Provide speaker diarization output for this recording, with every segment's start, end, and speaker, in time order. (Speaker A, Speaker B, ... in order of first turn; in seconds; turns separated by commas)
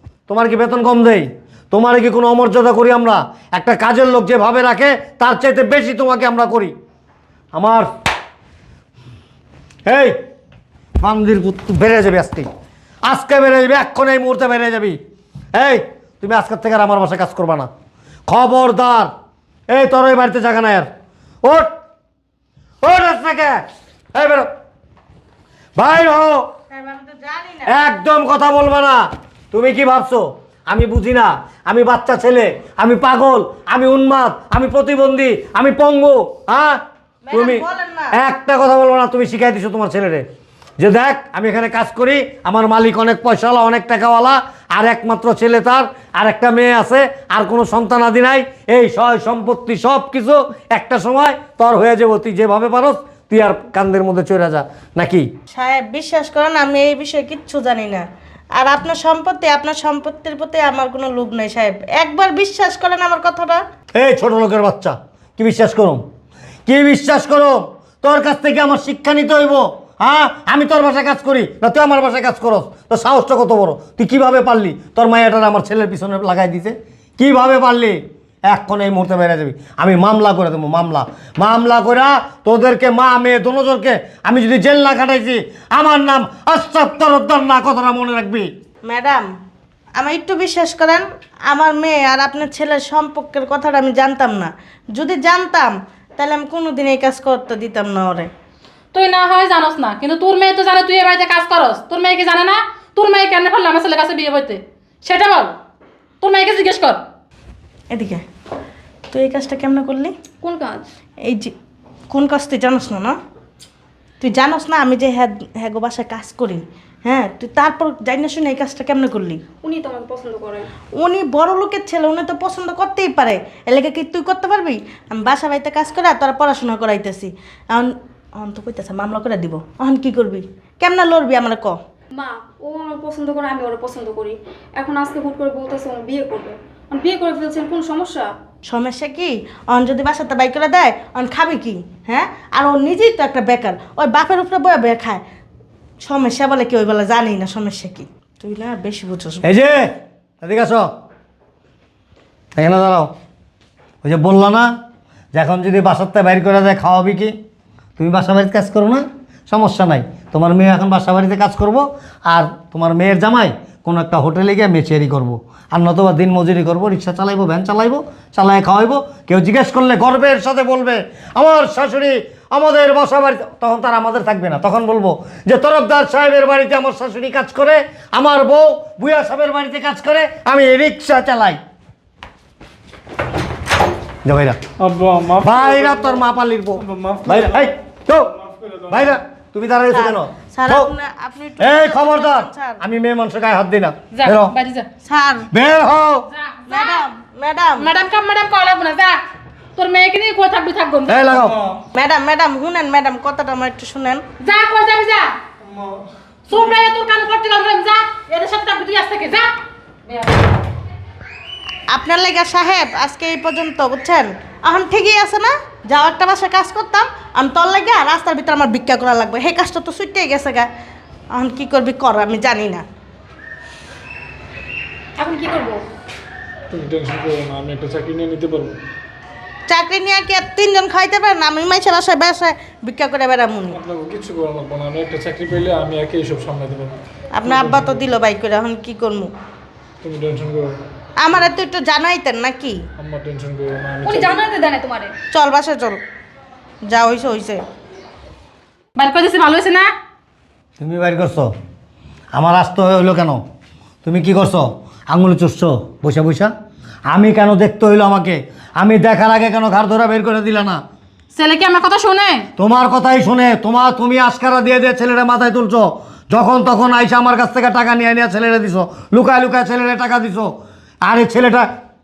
Speaker A: 0.3-6.7, Speaker A: 7.5-7.9, Speaker A: 9.9-10.2, Speaker A: 11.0-12.5, Speaker A: 13.1-15.0, Speaker A: 15.6-17.7, Speaker A: 18.3-19.1, Speaker A: 19.7-20.9, Speaker A: 21.4-21.7, Speaker A: 22.8-24.5, Speaker A: 25.8-26.5, Speaker B: 26.7-27.8, Speaker A: 27.7-36.8, Speaker B: 37.3-38.2, Speaker A: 37.3-40.2, Speaker A: 40.8-55.3, Speaker B: 55.5-58.0, Speaker B: 58.6-63.6, Speaker A: 64.0-66.0, Speaker A: 66.7-88.5, Speaker B: 88.8-89.3, Speaker B: 90.0-98.3, Speaker C: 98.9-105.6, Speaker C: 106.2-107.0, Speaker B: 107.9-108.2, Speaker B: 109.1-110.1, Speaker D: 110.4-110.9, Speaker B: 111.2-111.5, Speaker B: 112.1-113.2, Speaker B: 114.2-119.4, Speaker D: 119.6-120.7, Speaker B: 121.0-131.8, Speaker D: 132.1-138.3, Speaker B: 138.7-145.2, Speaker B: 146.0-149.5, Speaker A: 149.4-150.9, Speaker A: 152.6-153.1, Speaker A: 154.0-154.7, Speaker A: 155.3-157.3, Speaker A: 158.0-181.6, Speaker A: 184.2-184.6, Speaker E: 184.8-186.2, Speaker A: 185.4-188.3, Speaker E: 186.8-187.6, Speaker A: 188.9-190.9, Speaker B: 189.9-192.8, Speaker A: 191.6-194.5, Speaker C: 194.1-194.9, Speaker B: 195.0-195.5, Speaker A: 195.5-196.3, Speaker C: 196.3-197.1, Speaker B: 196.7-197.9, Speaker C: 197.8-199.2, Speaker C: 199.8-201.4, Speaker A: 201.1-201.6, Speaker B: 201.9-204.2, Speaker C: 204.4-205.3, Speaker C: 206.5-209.5, Speaker B: 211.9-220.7, Speaker B: 221.3-222.8, Speaker D: 225.2-225.8, Speaker E: 226.7-228.8, Speaker B: 229.7-233.8, Speaker E: 233.7-238.0, Speaker B: 237.3-239.3, Speaker E: 240.0-240.8, Speaker B: 241.2-242.8, Speaker E: 243.0-244.4, Speaker D: 244.1-245.2, Speaker B: 245.3-246.0, Speaker B: 246.9-247.6, Speaker C: 249.0-249.9, Speaker A: 250.8-251.5, Speaker A: 252.3-253.4, Speaker A: 254.0-256.5, Speaker A: 257.1-260.8, Speaker C: 261.3-262.5, Speaker A: 262.6-270.5, Speaker A: 271.1-271.7